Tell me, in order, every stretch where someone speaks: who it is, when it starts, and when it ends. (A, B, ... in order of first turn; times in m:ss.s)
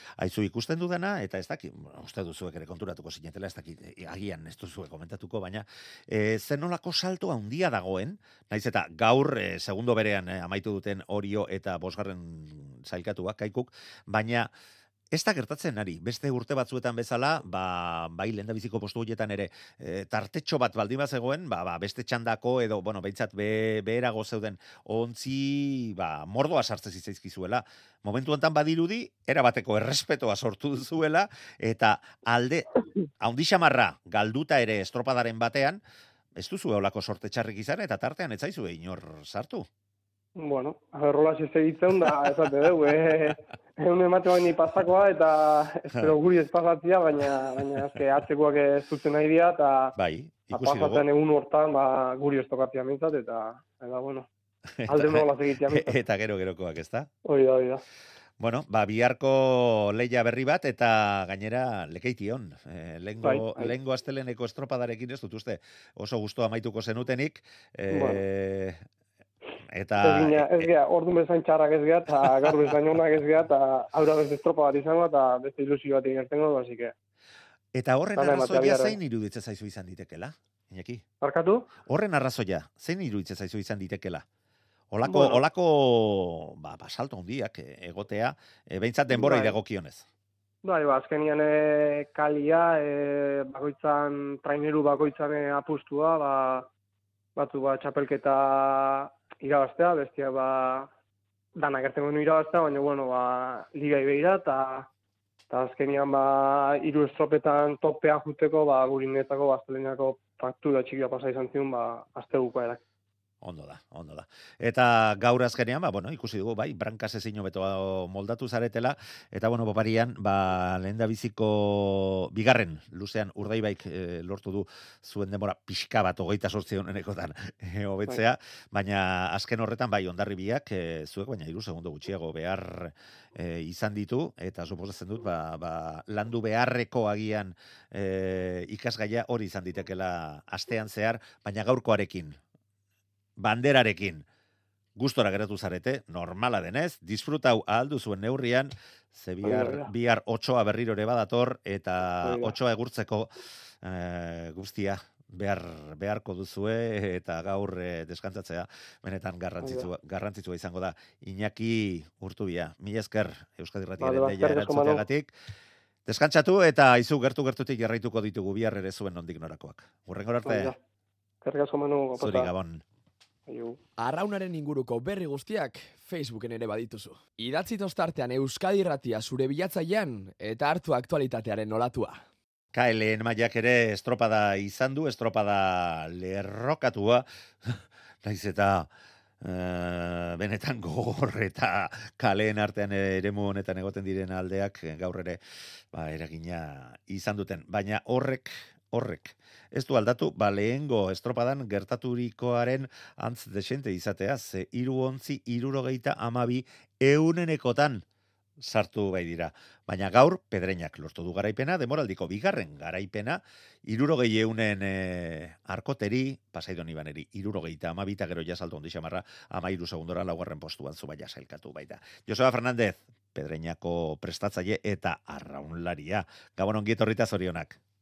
0:00.2-0:14.5 A
0:15.1-0:32.7 A
0:33.2-0:35.8 A
0:36.4-0:39.7 A
0:40.4-0:50.0 B
0:50.0-0:51.1 A
0:50.5-0:54.3 B
0:54.8-0:57.1 A
0:54.9-0:56.0 B
0:57.3-0:57.8 B
0:58.4-1:08.8 A
1:03.2-1:03.8 B
1:07.9-1:08.2 B
1:09.7-1:10.7 A
1:10.0-1:16.9 B
1:12.2-1:12.7 A
1:17.7-1:21.0 A
1:18.2-1:19.0 B
1:21.2-1:21.7 B
1:21.9-1:24.2 A
1:24.9-1:30.1 A
1:25.0-1:25.4 B
1:29.1-1:29.6 B
1:30.6-1:36.7 B
1:37.4-1:40.9 B
1:41.6-1:44.9 B
1:45.5-1:52.8 B
1:53.4-2:22.4 A
2:23.4-2:24.2 A
2:25.0-2:45.3 A
2:29.4-2:29.9 B
2:32.2-2:32.6 B
2:39.6-2:39.9 B
2:44.0-2:45.0 B
2:46.1-2:50.8 A
2:50.5-2:50.8 B
2:51.4-2:52.5 B
2:52.2-2:52.8 A
2:53.5-2:53.8 B
2:54.0-3:02.2 C
3:02.7-3:15.4 A
3:15.9-3:28.0 A
3:28.6-3:47.8 A